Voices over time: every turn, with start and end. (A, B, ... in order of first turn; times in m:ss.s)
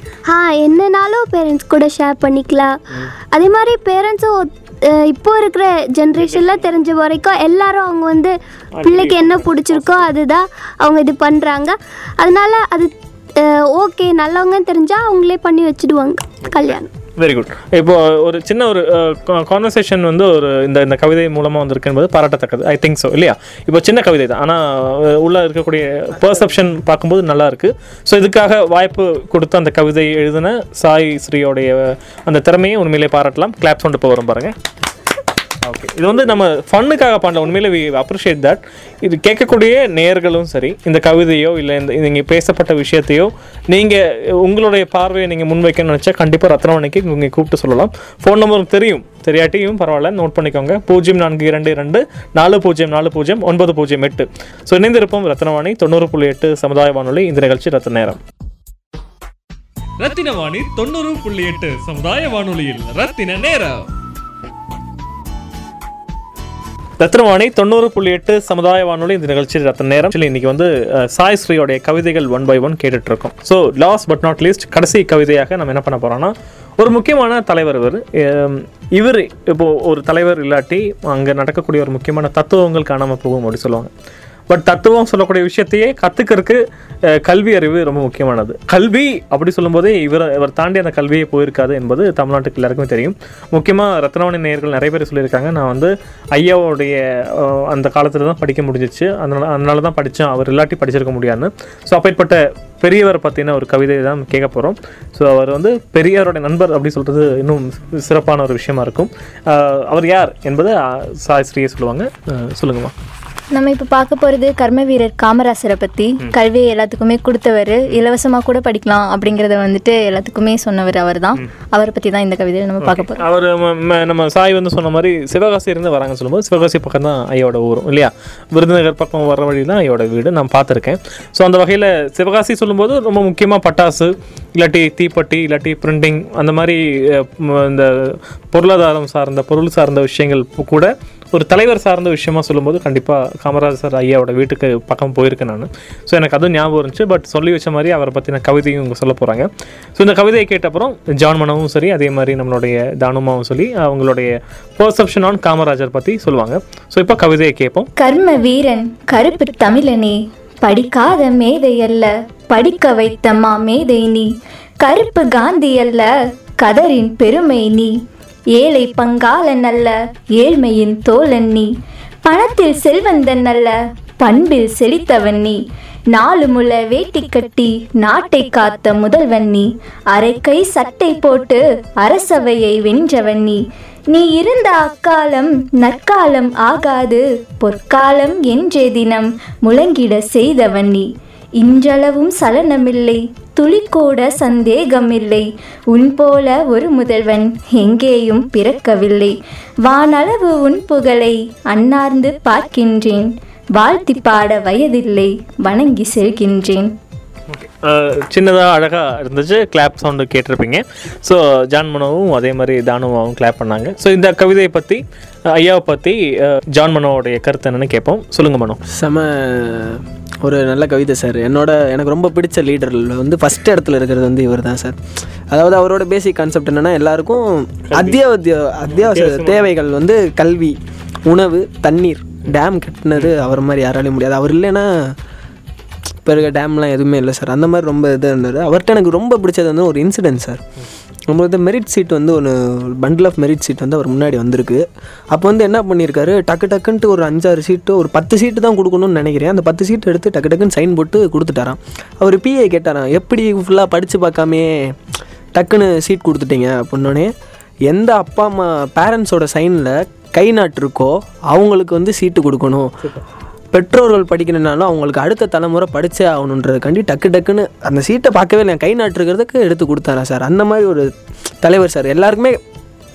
0:00.3-0:02.8 A
0:03.3-0:16.9 A
0:06.2-0:06.7 B
0:08.8-0:10.1 B
0:16.4-0:34.5 B
0:35.6-0:58.2 B
1:00.0-1:03.8 C
1:07.0-1:23.9 B
1:24.5-1:26.6 B
1:27.1-1:52.9 B
1:53.5-2:03.2 D
2:02.8-2:37.9 B
2:38.0-2:44.3 D
2:44.8-2:47.9 D
2:48.5-2:51.7 D
2:52.2-2:55.6 D
2:56.1-3:11.1 D
3:11.6-3:26.9 D
3:27.5-3:38.8 B
3:38.9-3:45.0 E
3:45.5-3:55.1 E
3:47.9-3:48.2 B
3:48.9-3:49.7 B
3:56.2-4:00.6 E
4:01.3-4:14.9 E
4:15.6-4:17.3 E
4:17.9-4:22.9 E
4:23.7-4:31.1 E
4:31.6-4:32.6 E